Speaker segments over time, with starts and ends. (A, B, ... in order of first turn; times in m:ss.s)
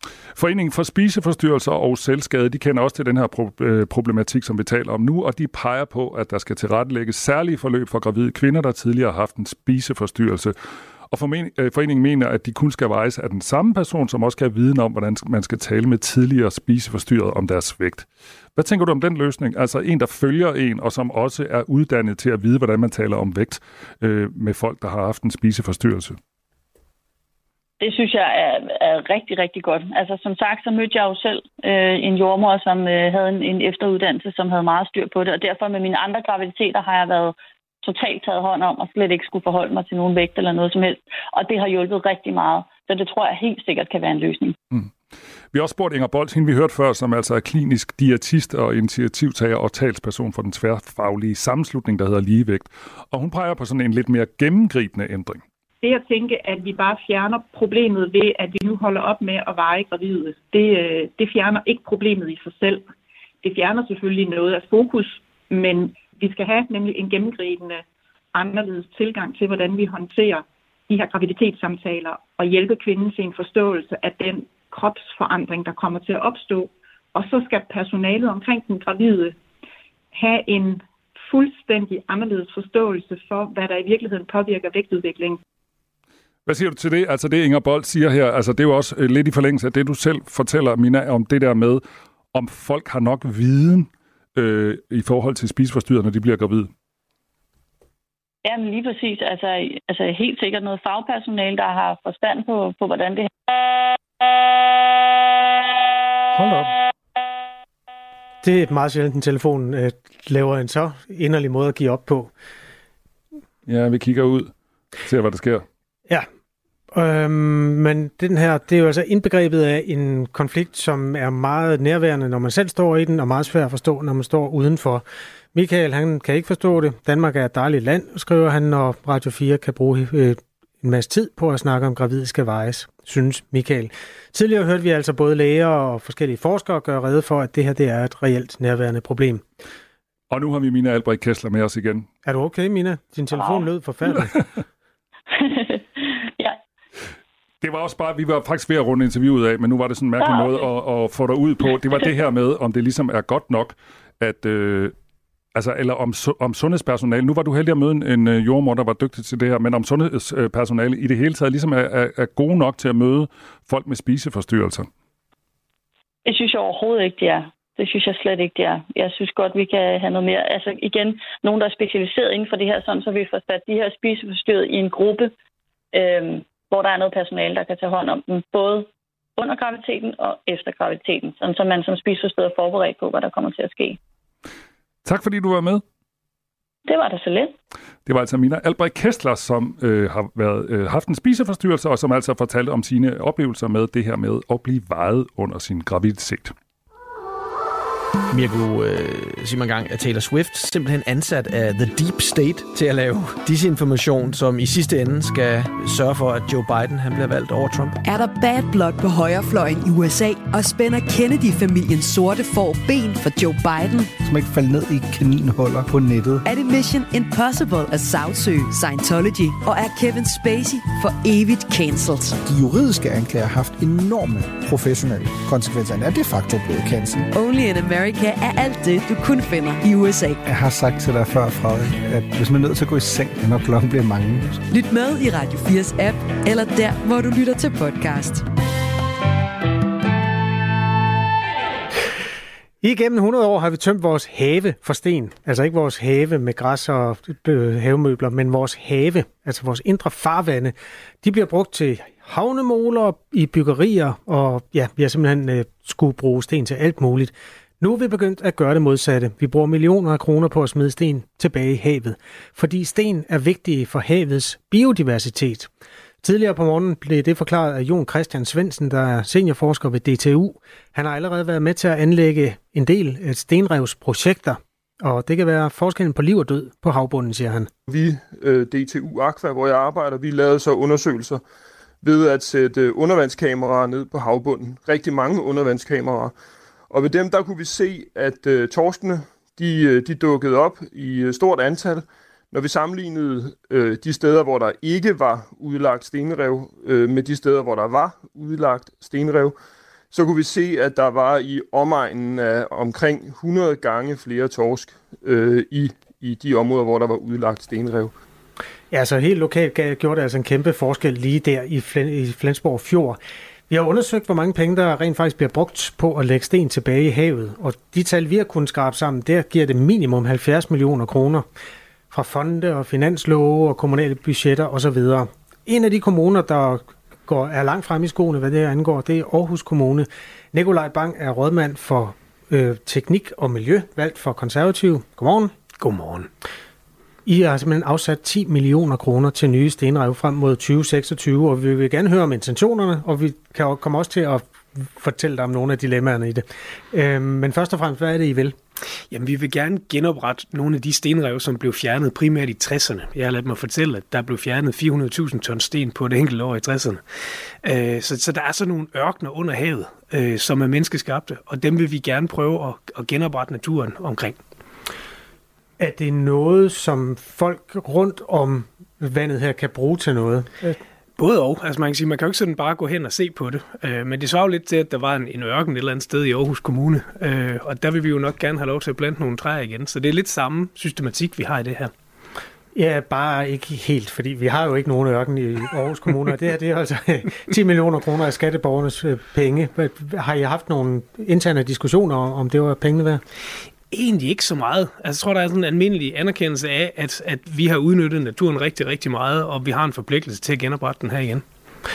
0:00.3-0:10.5 A
0:11.1-0:26.2 A
0:27.8-0:44.6 B
0:45.5-0:55.4 A
0:55.8-1:02.9 C
1:03.4-1:19.4 C
1:20.1-1:25.4 C
1:26.4-1:31.8 A
1:32.3-1:36.7 A
1:38.4-1:43.3 B
1:46.3-1:46.7 A
1:48.4-1:52.3 D
1:53.7-1:55.6 A
1:56.9-2:19.4 D
2:20.3-2:22.1 A
2:22.2-2:24.4 D
2:23.3-2:23.7 B
2:25.3-2:26.6 B
2:27.6-2:34.9 A
2:30.2-2:30.7 B
2:35.5-2:44.9 A
2:46.2-2:55.3 B
2:55.9-3:04.0 B
3:05.0-3:05.8 A
3:06.8-3:07.5 B
3:08.0-3:16.5 A
3:18.3-3:28.0 E
3:28.0-3:34.2 F
3:34.2-3:36.4 G
3:36.5-3:42.4 F
3:42.4-3:47.3 G
3:47.3-3:50.4 F
3:50.4-3:54.6 G
3:54.7-3:58.5 F
4:02.8-4:25.7 D
4:26.2-4:37.7 D
4:37.9-4:41.4 H
4:42.0-4:46.3 H
4:46.9-4:59.5 H
5:00.1-5:08.1 H
5:08.9-5:21.4 D
5:22.1-5:35.5 D
5:35.8-5:36.3 I
5:37.2-5:48.6 D
5:49.1-5:57.0 I
5:57.6-6:04.4 I
6:05.8-6:10.8 D
6:11.2-6:21.9 I
6:22.7-6:33.2 D
6:33.9-6:41.4 I